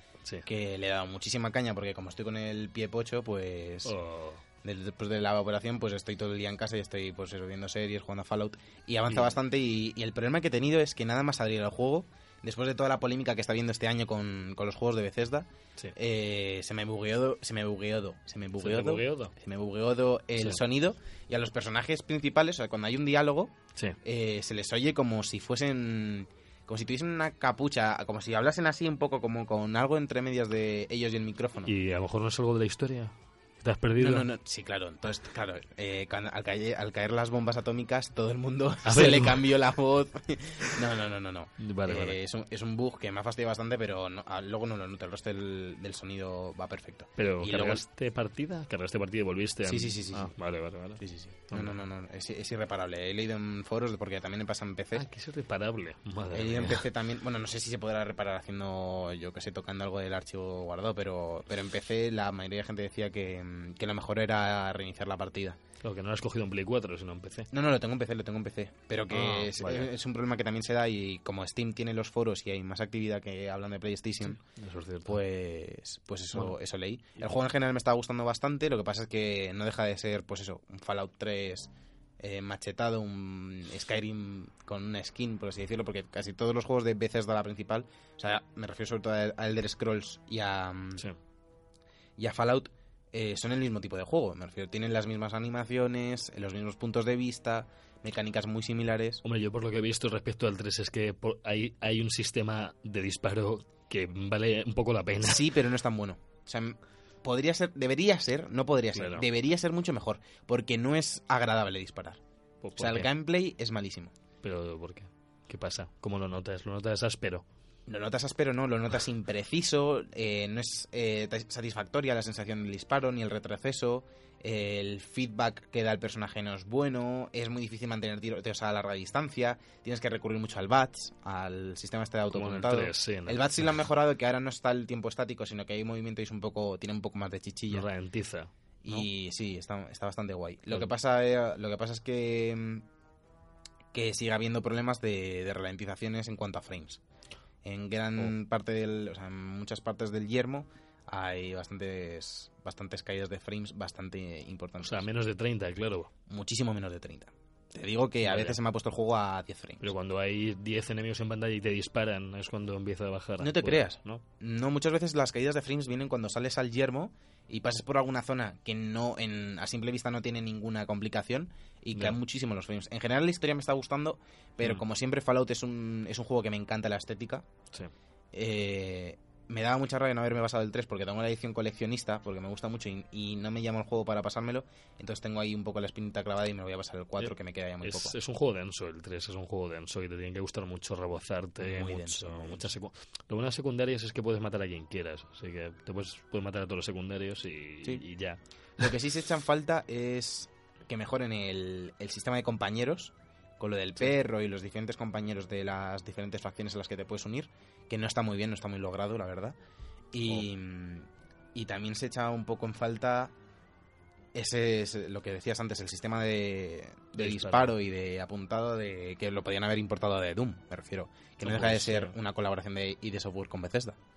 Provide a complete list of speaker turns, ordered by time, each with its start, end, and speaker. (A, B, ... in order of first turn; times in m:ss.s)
0:00.4-0:03.9 A
0:03.8-0:04.4 B
0:04.6-0:23.5 A
0:18.6-0:19.3 B
0:24.0-0:31.7 A
0:31.6-0:34.3 B
0:34.0-0:47.8 A
0:38.8-0:39.5 B
0:41.6-0:42.2 B
0:47.2-0:51.8 B
0:49.6-0:50.3 A
0:51.0-0:55.0 A
0:54.9-0:56.9 B
0:56.3-1:05.6 A
1:05.8-1:07.5 B
1:07.5-1:14.4 A
1:09.1-1:09.9 B
1:14.2-1:15.2 B
1:15.1-1:31.0 A
1:32.2-1:39.2 A
1:39.2-1:45.5 B
1:45.2-1:52.2 A
1:48.9-1:49.3 B
1:52.6-1:53.1 B
1:52.8-1:54.1 A
1:54.4-1:57.4 B
1:57.9-2:17.9 A
2:12.3-2:13.8 B
2:17.7-2:19.1 B
2:18.8-2:22.8 A
2:23.9-2:27.0 A
2:27.6-2:35.1 A
2:34.8-2:36.1 B
2:36.3-2:39.9 A
2:38.2-2:38.6 B
2:39.8-2:44.2 B
2:43.4-2:57.4 A
2:51.9-2:52.2 B
2:58.3-3:08.1 A
3:07.2-3:18.9 B
3:11.6-3:12.7 A
3:18.8-3:29.6 A
3:30.1-3:33.3 A
3:34.3-3:44.0 A
3:37.2-3:37.8 B
3:41.4-3:42.2 B